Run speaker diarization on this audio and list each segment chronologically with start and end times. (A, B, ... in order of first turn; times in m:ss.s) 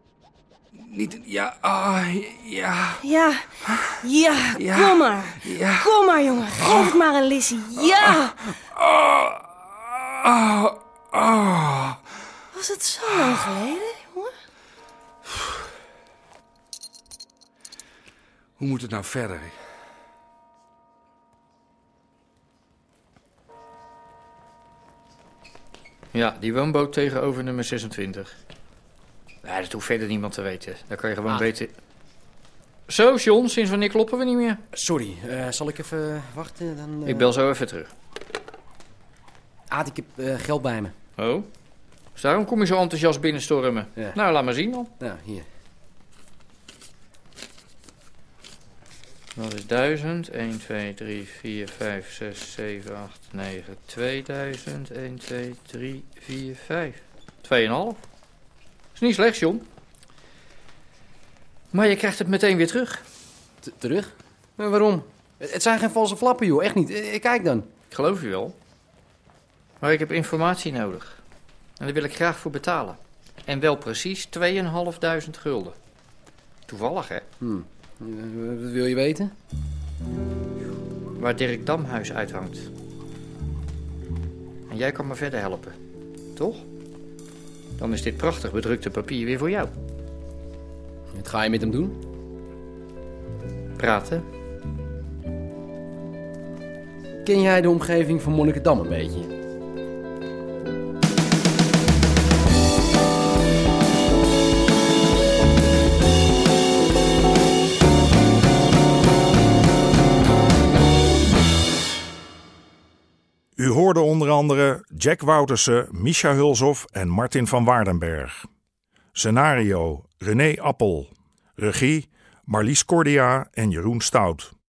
0:00.8-0:03.0 A
0:03.0-0:08.4 B
0:03.6-0:04.0 A
0:04.6-0:05.8 A
0:06.6-0:07.0 A
0:08.8-0:09.5 A
0:10.2-0:12.0 A
0:12.5-0:14.3 B
0:13.1-0:13.5 A
0:18.6-0:19.6 A
0:26.1-0:28.3 C
0:29.5-0:31.7 C
0:32.9-0:34.6 C
0:34.7-0:37.3 D
0:37.1-0:37.9 C
0:39.7-0:40.9 D
0:41.2-0:41.5 C
0:42.2-0:44.9 C
0:45.0-0:45.5 D
0:49.4-0:58.0 C
0:59.0-0:59.6 C
1:01.7-1:03.0 C
1:03.8-1:04.1 D
1:04.6-1:07.7 D
1:07.9-1:08.6 C
1:09.8-1:11.2 C
1:11.8-1:15.8 C
1:16.7-1:17.3 C
1:17.4-1:19.3 D
1:21.2-1:22.7 C
1:24.7-1:25.8 C
1:26.4-1:26.7 C
1:27.8-1:29.7 C
1:31.2-1:31.9 D
1:33.8-1:34.3 C
1:37.3-1:39.3 D
1:53.6-1:58.4 E
1:59.2-2:04.5 E